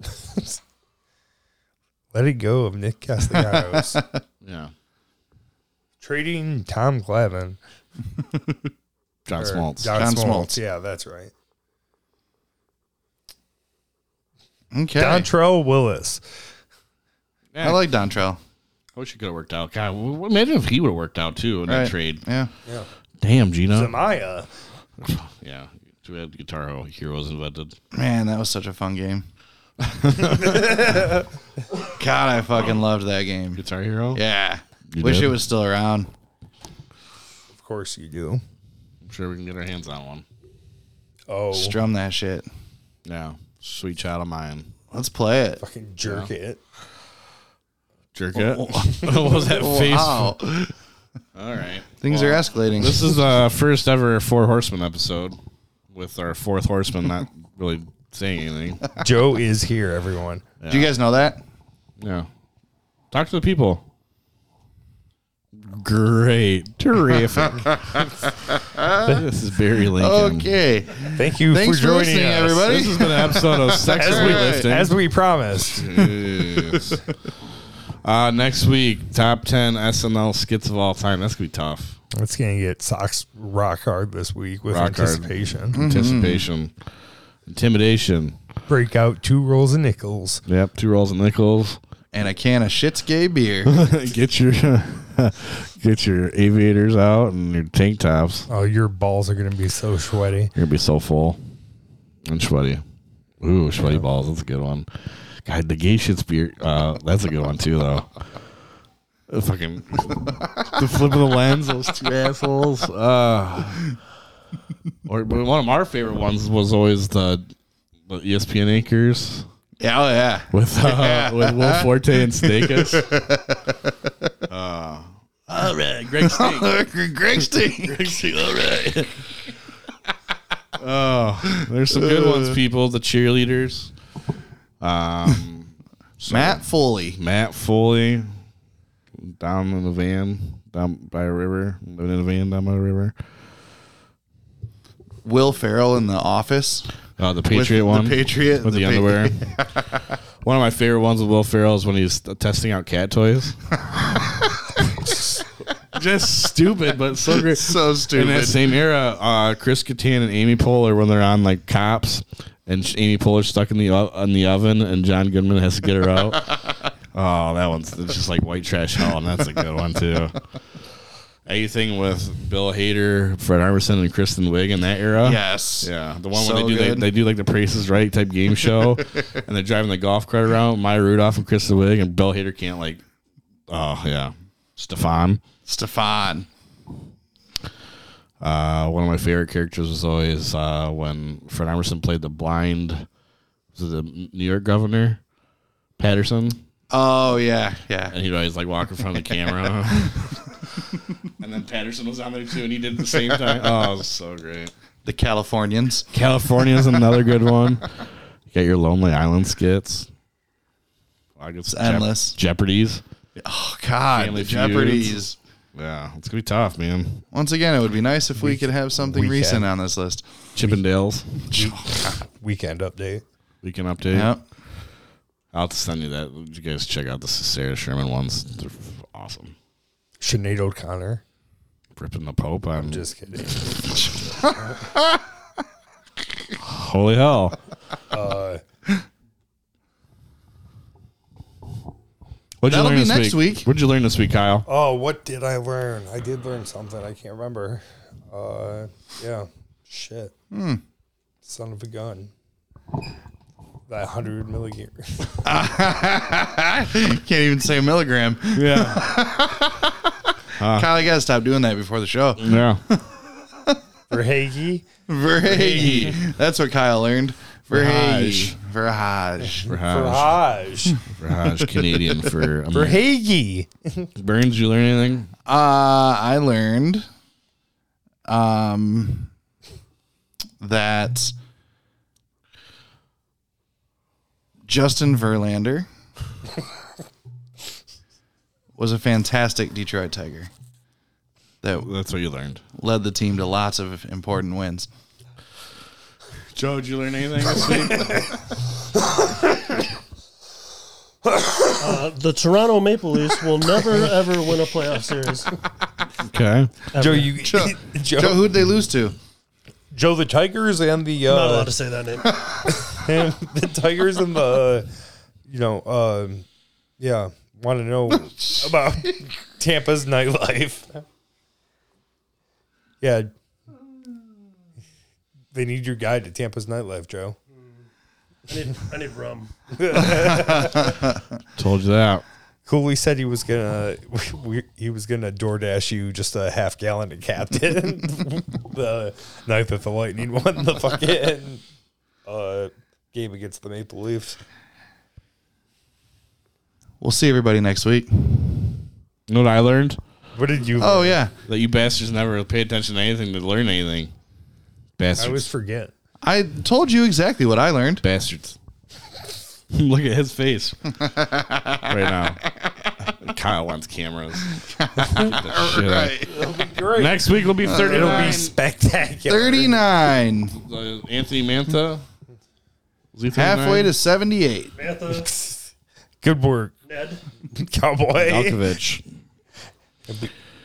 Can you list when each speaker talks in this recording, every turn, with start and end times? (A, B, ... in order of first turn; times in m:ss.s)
0:02.1-0:04.0 A
0:03.3-0:04.2 B
0:04.4-0:04.7 C
0:06.0-0:07.6 A
0:09.2-0:10.0 C
0:09.4-0:11.3 A
0:09.9-0:10.6 B
0:14.7-0:15.3 B
0:15.0-0:16.2 A
0:17.5-0:17.8 C
0:17.6-0:18.4 B
0:19.0-0:22.2 C
0:21.7-0:22.5 B
0:23.2-0:24.0 C
0:23.7-0:24.5 A
0:25.0-0:27.7 C
0:27.9-0:29.2 B
0:29.8-0:30.9 C
0:30.4-0:31.1 A
0:31.9-0:36.1 B
0:33.6-0:34.2 C
0:34.9-0:35.3 C
0:37.5-0:38.4 A
0:39.0-0:40.2 C
0:41.3-0:41.8 A
0:41.5-0:42.4 B
0:43.0-0:44.8 C
0:44.9-0:45.6 B
0:45.6-0:46.6 A
0:48.1-0:50.4 C
0:48.3-0:50.7 B
0:51.3-0:55.4 C
0:52.0-0:53.2 B
0:55.9-0:58.9 C
0:59.0-1:00.4 A
1:00.6-1:00.9 C
1:00.7-1:01.4 B
1:02.0-1:02.3 C
1:03.1-1:03.8 C
1:05.5-1:08.0 C
1:07.3-1:09.2 B
1:09.0-1:10.5 C
1:10.0-1:14.7 B
1:11.1-1:13.0 A
1:12.7-1:14.9 C
1:13.8-1:16.0 A
1:15.7-1:16.9 C
1:18.0-1:22.0 C
1:22.1-1:25.8 A
1:24.7-1:26.7 C
1:25.7-1:26.4 B
1:27.5-1:28.4 C
1:28.7-1:30.4 A
1:30.5-1:31.8 C
1:32.1-1:33.8 B
1:33.6-1:38.5 C
1:38.5-1:40.5 A
1:40.5-1:41.4 C
1:42.2-1:42.8 C
1:43.4-1:48.1 C
1:49.3-1:54.0 C
1:55.0-1:57.4 C
1:58.0-1:59.4 C
1:59.8-2:04.3 B
2:00.5-2:03.1 C
2:04.5-2:06.8 C
2:06.2-2:08.0 B
2:07.8-2:09.2 C
2:10.8-2:13.9 C
2:11.9-2:12.6 B
2:14.8-2:18.3 C
2:16.3-2:17.2 B
2:19.2-2:23.1 C
2:25.2-2:26.9 B
2:27.2-2:29.4 C
2:27.5-2:30.0 B
2:30.4-2:33.8 C
2:35.9-2:50.4 C
2:37.3-2:38.8 B
2:51.4-3:03.0 C
2:55.2-2:57.1 B
3:03.7-3:05.4 C
3:05.6-3:06.5 B
3:08.4-3:13.1 C
3:13.7-3:15.2 C
3:16.0-3:16.6 C
3:16.9-3:18.1 B
3:18.1-3:20.6 C
3:21.4-3:24.7 C
3:25.0-3:26.0 B
3:26.1-3:30.1 C
3:31.4-3:33.0 C
3:31.7-3:32.4 B
3:33.4-3:35.4 B
3:34.1-3:35.2 C
3:35.7-3:37.2 C
3:37.3-3:40.4 B
3:38.4-3:39.7 A
3:40.5-3:41.3 C
3:41.5-3:43.2 A
3:41.5-3:42.2 B
3:43.6-3:44.3 C
3:44.1-3:44.4 B
3:45.5-3:49.5 C
3:50.2-3:51.2 A
3:52.0-3:53.5 C
3:52.8-3:53.7 A
3:54.3-3:55.2 B
3:56.6-3:57.6 C
3:58.1-3:58.6 A
4:02.6-4:04.6 C
4:02.7-4:03.7 B
4:04.7-4:10.3 A
4:10.5-4:10.8 B
4:11.4-4:12.3 A
4:13.9-4:15.3 A
4:15.4-4:23.8 B
4:18.5-4:19.1 C
4:20.6-4:20.9 C
4:22.4-4:22.8 C
4:24.1-4:24.8 A
4:25.1-4:29.7 B
4:25.5-4:26.2 A
4:27.7-4:28.5 C
4:29.6-4:31.0 A
4:29.7-4:30.4 C
4:31.1-4:33.0 C
4:31.5-4:32.3 B
4:32.7-4:34.1 A
4:34.2-4:35.3 C
4:35.4-4:37.0 B
4:38.3-4:39.3 B
4:40.6-4:41.3 B
4:44.6-4:45.9 B
4:48.8-4:50.5 B
4:51.6-4:51.9 B
4:51.8-4:52.6 C
4:52.8-4:54.9 B
4:56.5-4:58.4 C
5:01.2-5:01.7 A
5:01.8-5:05.5 D
5:06.2-5:06.7 C
5:06.9-5:07.4 D
5:07.0-5:08.5 A
5:07.4-5:09.1 B
5:09.9-5:11.7 A
5:11.2-5:12.4 D
5:12.7-5:14.9 A
5:15.5-5:16.4 A
5:17.0-5:21.0 A
5:18.3-5:18.7 B
5:23.0-5:23.3 A
5:25.5-5:27.4 A
5:28.5-5:29.5 D
5:29.8-5:30.9 A
5:30.8-5:31.1 B
5:31.6-5:32.2 C
5:32.6-5:41.6 A
5:42.2-5:44.4 A
5:47.0-5:48.8 B
5:49.3-5:50.0 C
5:50.3-5:51.2 A
5:50.8-5:51.3 B
5:51.5-5:54.1 C
5:55.0-5:55.5 C
5:55.2-5:55.9 A
5:56.2-5:58.0 B
5:58.0-5:58.6 C
5:59.7-6:01.0 C
6:01.0-6:02.9 B
6:01.8-6:02.4 C
6:03.0-6:06.3 C
6:04.5-6:06.5 B
6:06.2-6:09.8 A
6:06.8-6:08.5 C
6:07.6-6:08.4 B
6:09.2-6:10.6 B
6:10.5-6:12.0 C
6:13.1-6:13.9 C
6:13.3-6:14.7 B
6:14.8-6:15.3 D
6:15.1-6:15.7 A
6:16.2-6:16.7 A
6:16.8-6:17.2 D
6:17.5-6:18.6 A
6:18.2-6:19.0 C